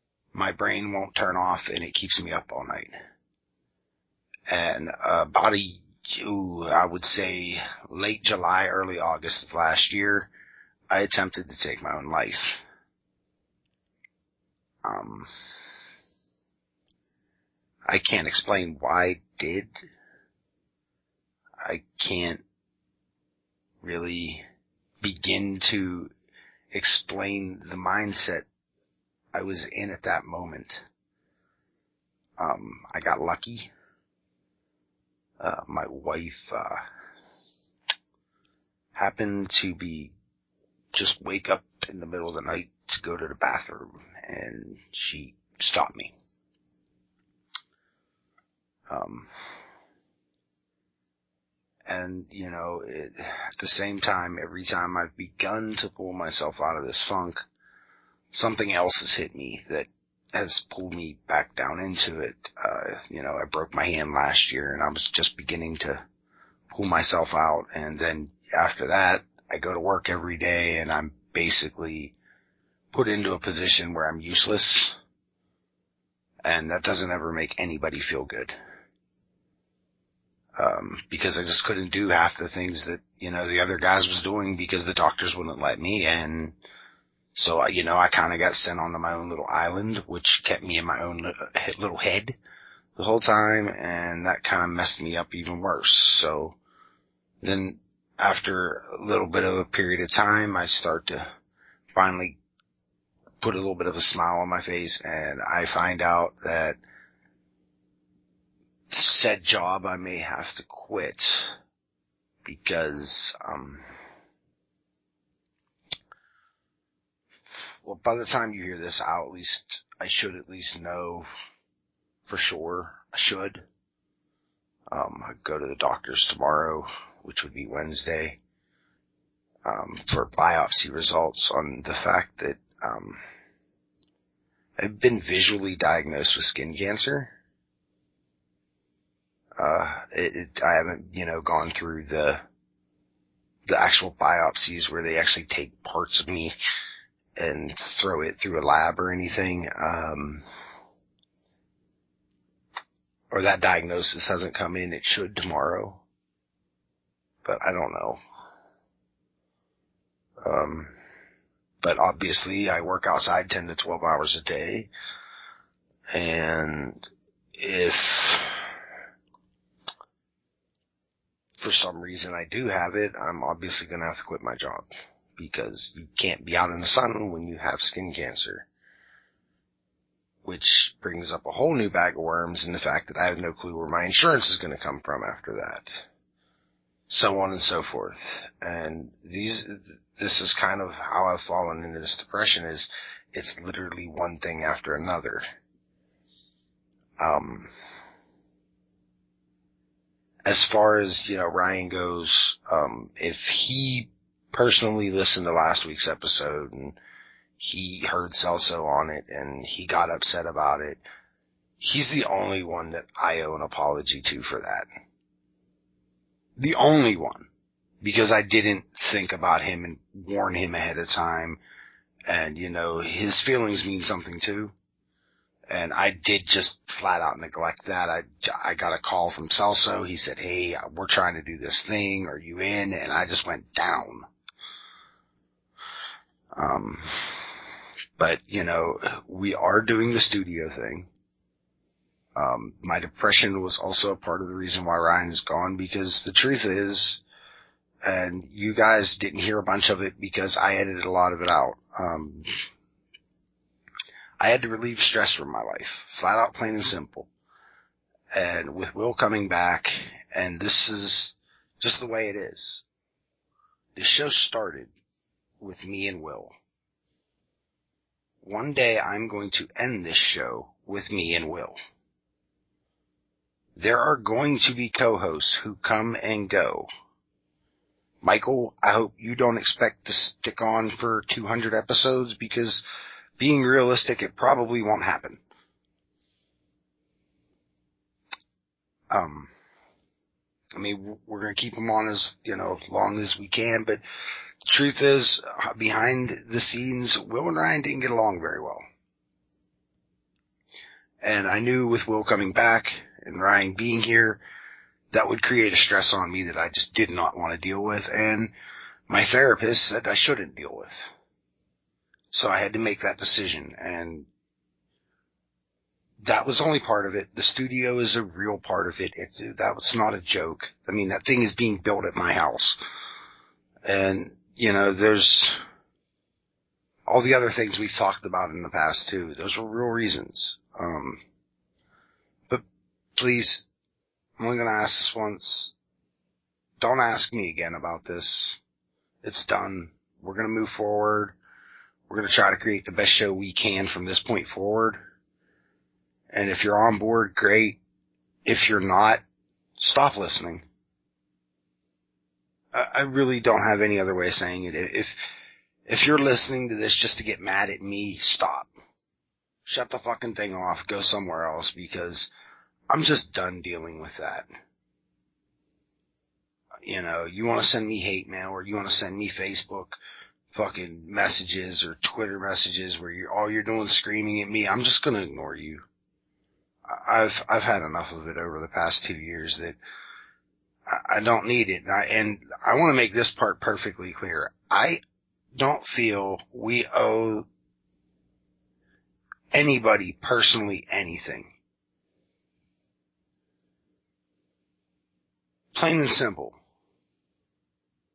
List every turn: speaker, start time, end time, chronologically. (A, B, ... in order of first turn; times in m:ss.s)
0:00.3-0:03.0 A
0:04.5-0:10.3 A
0:10.9-0:12.6 A
0:14.8-0:15.3 A
0:17.9-0:19.7 A
0:21.6-0:22.4 A
0:23.8-0:24.4 A
0:25.0-0:26.1 A
0:26.7-0:28.4 A
0:29.3-0:30.8 A
0:32.4-0:33.7 A
0:35.4-0:36.8 A
0:38.9-0:40.1 A
0:40.9-0:46.1 A
0:48.9-0:49.3 A
0:51.8-0:57.4 A
0:58.3-1:06.0 A
1:06.7-1:12.1 A
1:12.9-1:14.9 A
1:16.4-1:18.5 A
1:20.6-1:26.6 A
1:27.3-1:32.4 A
1:33.0-1:36.6 A
1:37.4-1:41.3 A
1:41.9-1:42.4 A
1:43.4-1:46.8 A
1:48.9-1:51.6 A
1:52.4-1:53.8 A
1:57.5-2:01.3 A
2:02.2-2:03.6 A
2:04.9-2:08.4 A
2:09.6-2:13.2 A
2:14.8-2:17.3 A
2:19.6-2:22.4 A
2:23.7-2:26.5 A
2:27.4-2:30.4 A
2:33.3-2:36.0 A
2:37.4-2:38.2 A
2:40.4-2:40.9 A
2:41.8-2:44.9 A
2:46.1-2:47.0 A
2:47.6-2:48.5 A
2:51.6-2:58.6 A
3:00.4-3:05.9 A
3:07.1-3:15.4 A
3:17.2-3:17.7 A
3:20.4-3:27.0 A
3:27.6-3:31.0 A
3:31.8-3:34.8 A
3:36.6-3:37.5 A
3:38.0-3:41.6 A
3:42.3-3:44.7 A
3:45.7-3:54.3 A
3:56.5-3:57.5 A
3:58.2-4:01.1 A
4:02.4-4:07.2 A
4:08.0-4:12.5 A
4:14.4-4:17.3 A
4:18.3-4:22.8 A
4:24.0-4:24.9 A
4:25.6-4:26.5 A
4:28.4-4:31.8 A
4:33.8-4:36.9 A
4:38.2-4:42.8 A
4:43.4-4:45.4 A
4:49.1-4:49.5 A
4:50.7-4:54.0 A
4:54.6-4:58.8 A
5:01.2-5:04.4 A
5:05.1-5:08.5 A
5:09.1-5:11.0 A
5:12.3-5:14.3 A
5:16.2-5:22.8 A
5:23.8-5:25.6 A
5:27.1-5:31.2 A
5:33.2-5:33.6 A
5:34.4-5:35.7 A
5:36.8-5:38.6 A
5:39.2-5:41.3 A
5:42.1-5:45.0 A
5:46.3-5:47.8 A
5:48.4-5:49.2 A
5:49.8-5:50.6 A
5:52.7-5:55.1 A
5:55.9-5:58.7 A
5:59.6-6:02.3 A
6:02.9-6:04.5 A
6:06.8-6:10.0 A
6:10.5-6:15.8 A
6:16.9-6:19.8 A
6:20.9-6:25.0 A
6:25.5-6:27.4 A
6:29.5-6:31.5 A
6:35.7-6:36.6 A